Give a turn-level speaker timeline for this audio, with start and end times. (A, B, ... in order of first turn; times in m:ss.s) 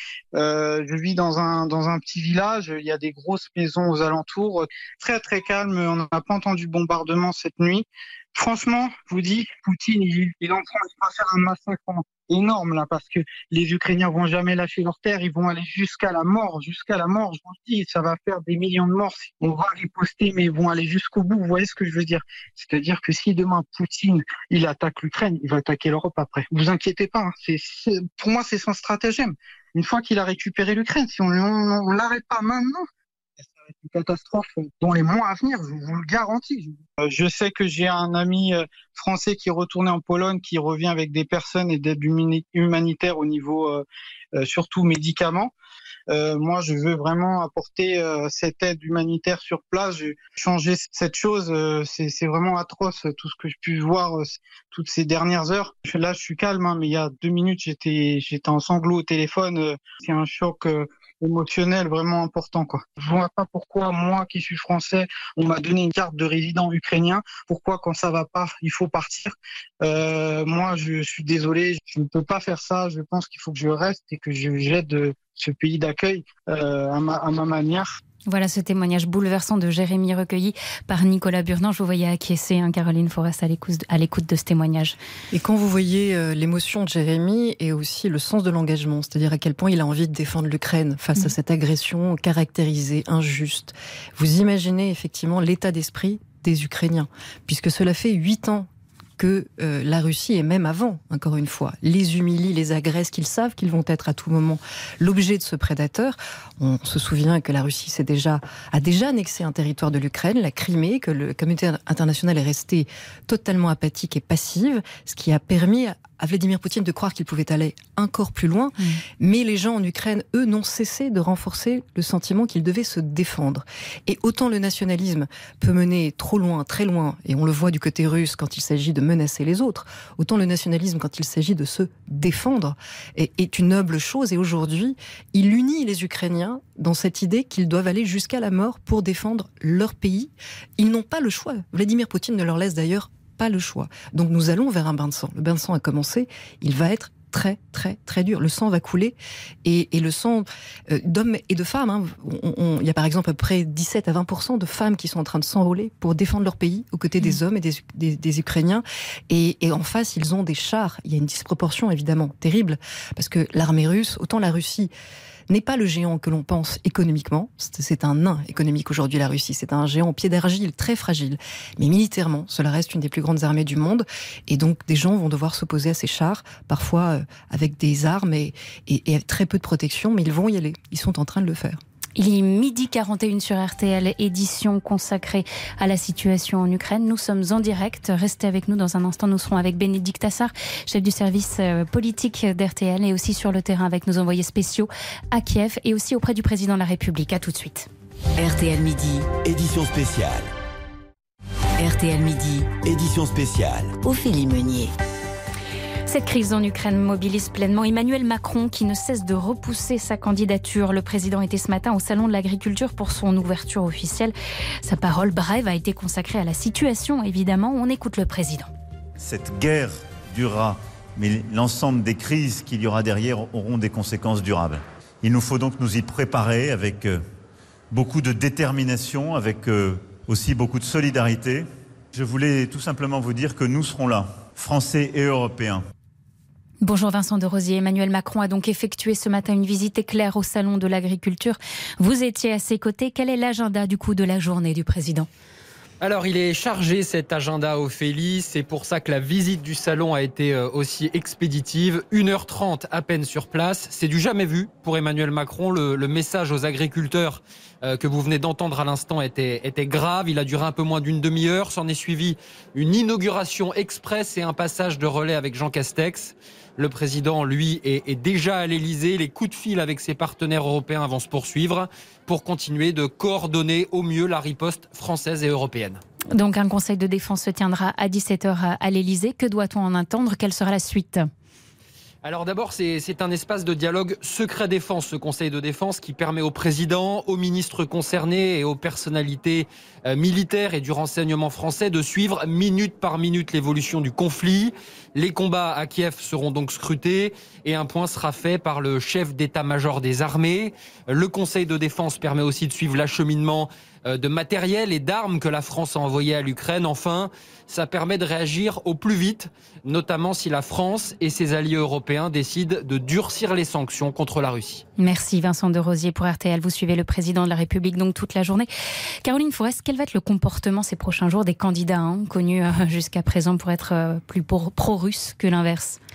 0:00.3-0:32.9 A
0:33.4-0:43.8 A
0:44.4-0:45.5 A
0:46.1-1:17.9 A
1:18.3-1:25.0 B
1:25.3-2:44.9 C
2:45.5-3:01.8 C
3:02.2-3:17.9 B
3:18.4-3:19.3 D
3:19.4-3:20.5 E
3:21.8-3:22.7 D
3:22.8-3:24.0 E
3:24.0-3:24.9 D
3:26.1-3:38.7 B
3:39.2-3:47.2 E
3:47.9-3:55.8 E
3:56.8-4:05.3 B
4:06.0-4:36.0 F
4:36.3-4:41.3 B
4:42.2-5:14.8 F
5:15.0-5:18.7 B
5:19.2-5:26.0 B